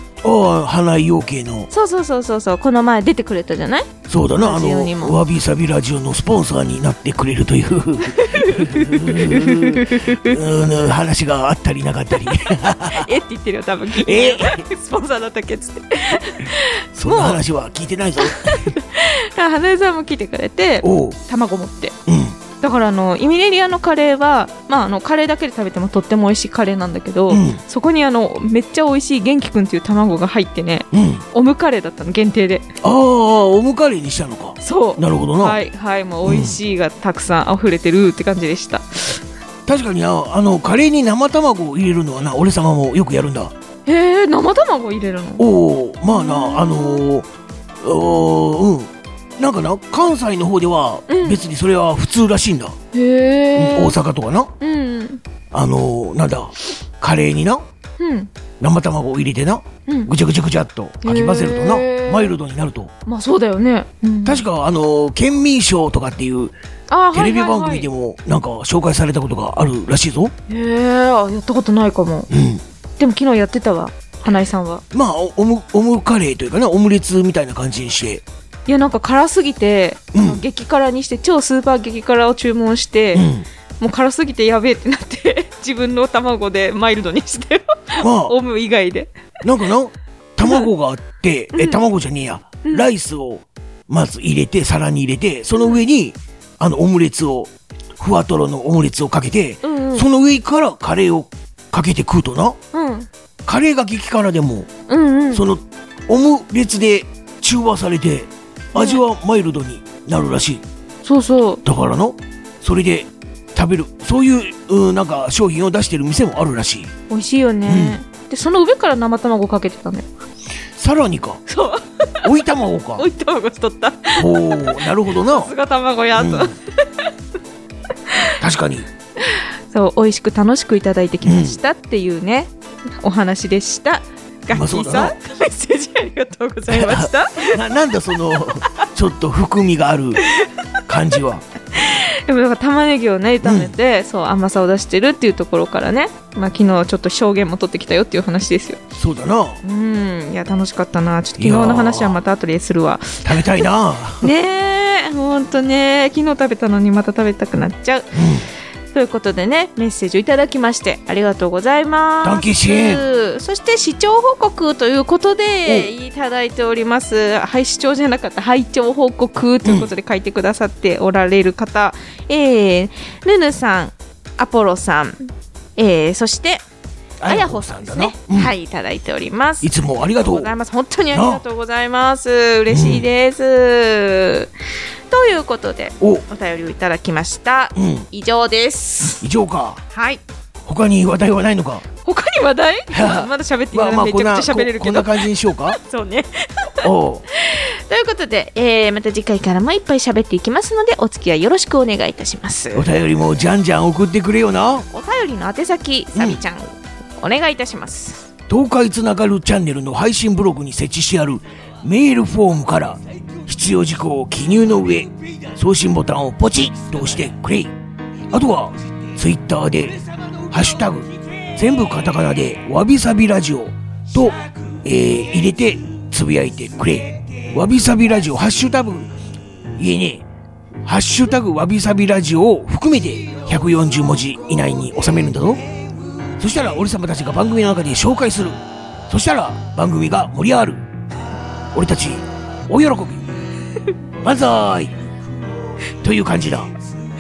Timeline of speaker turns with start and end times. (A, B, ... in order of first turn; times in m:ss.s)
0:00.2-0:01.7 A
0:01.7-0:05.2 B
0:04.1-0:13.1 A
0:08.0-0:10.4 B
0:12.6-0:17.4 B
0:13.9-0:14.7 A
0:17.0-0:18.7 A
0:18.2-0:22.0 B
0:20.8-0:21.2 A
0:22.1-0:22.4 A
0:22.6-0:32.7 B
0:27.3-0:27.6 A
0:30.9-0:31.2 A
0:32.8-0:35.6 A
0:34.6-0:39.2 B
0:36.2-0:36.6 A
0:39.7-0:43.5 A
0:43.9-0:45.4 B
0:45.4-0:47.3 A
0:46.1-0:47.0 B
0:47.8-0:52.8 A
0:51.1-0:51.4 B
0:52.9-0:54.0 B
0:53.5-0:54.5 A
0:54.6-0:55.2 B
0:55.5-0:57.6 A
0:58.0-0:58.3 B
0:58.6-1:02.9 A
0:59.9-1:00.1 B
1:01.0-1:02.4 B
1:03.1-1:04.4 B
1:04.2-1:06.6 A
1:06.9-1:07.9 B
1:07.1-1:10.3 A
1:10.5-1:12.3 B
1:12.3-1:12.6 A
1:13.0-1:14.8 B
1:14.9-1:18.2 A
1:18.7-1:23.3 B
1:20.1-1:20.4 A
1:23.1-1:23.5 A
1:23.8-1:29.1 B
1:28.0-1:28.4 A
1:29.4-1:42.6 A
1:31.5-1:31.8 B
1:39.6-1:40.1 B
1:42.7-1:43.1 B
1:43.5-1:44.7 A
1:44.9-1:45.4 B
1:45.3-1:50.6 A
1:48.7-1:49.0 B
1:51.0-1:51.6 B
1:51.6-1:56.9 A
1:57.1-2:00.1 B
1:57.7-1:58.0 A
2:00.8-2:01.4 A
2:01.5-2:02.3 B
2:02.2-2:03.1 A
2:03.0-2:07.1 B
2:04.2-2:05.5 A
2:06.2-2:06.6 A
2:08.4-2:08.9 A
2:09.2-2:17.6 B
2:11.2-2:11.6 A
2:14.5-2:15.2 A
2:16.7-2:20.2 A
2:20.2-2:20.5 B
2:20.9-2:21.5 A
2:21.7-2:28.8 B
2:23.4-2:23.7 A
2:29.0-2:29.6 A
2:29.6-2:33.6 B
2:31.4-2:32.2 A
2:33.2-2:34.3 A
2:34.2-2:38.1 B
2:38.1-2:38.5 A
2:38.9-2:55.2 B
2:42.2-2:43.0 A
2:45.6-2:45.9 A
2:49.6-2:49.9 A
2:55.8-2:56.6 B
2:57.2-2:58.5 A
2:57.3-3:04.5 B
2:59.6-3:00.5 A
3:01.1-3:01.4 A
3:02.7-3:03.0 A
3:05.1-3:09.3 B
3:07.8-3:08.1 A
3:09.2-3:09.8 A
3:09.9-3:10.2 B
3:10.7-3:11.8 A
3:12.0-3:22.9 B
3:12.9-3:15.8 A
3:16.8-3:17.2 A
3:22.7-3:24.9 A
3:24.9-3:28.2 B
3:26.2-3:26.4 A
3:28.5-3:37.7 A
3:38.3-3:49.1 A
3:49.8-3:50.2 A
3:50.8-3:55.7 A
3:56.3-4:00.8 A
4:01.7-4:03.3 A
4:04.2-4:05.0 A
4:05.9-4:06.7 A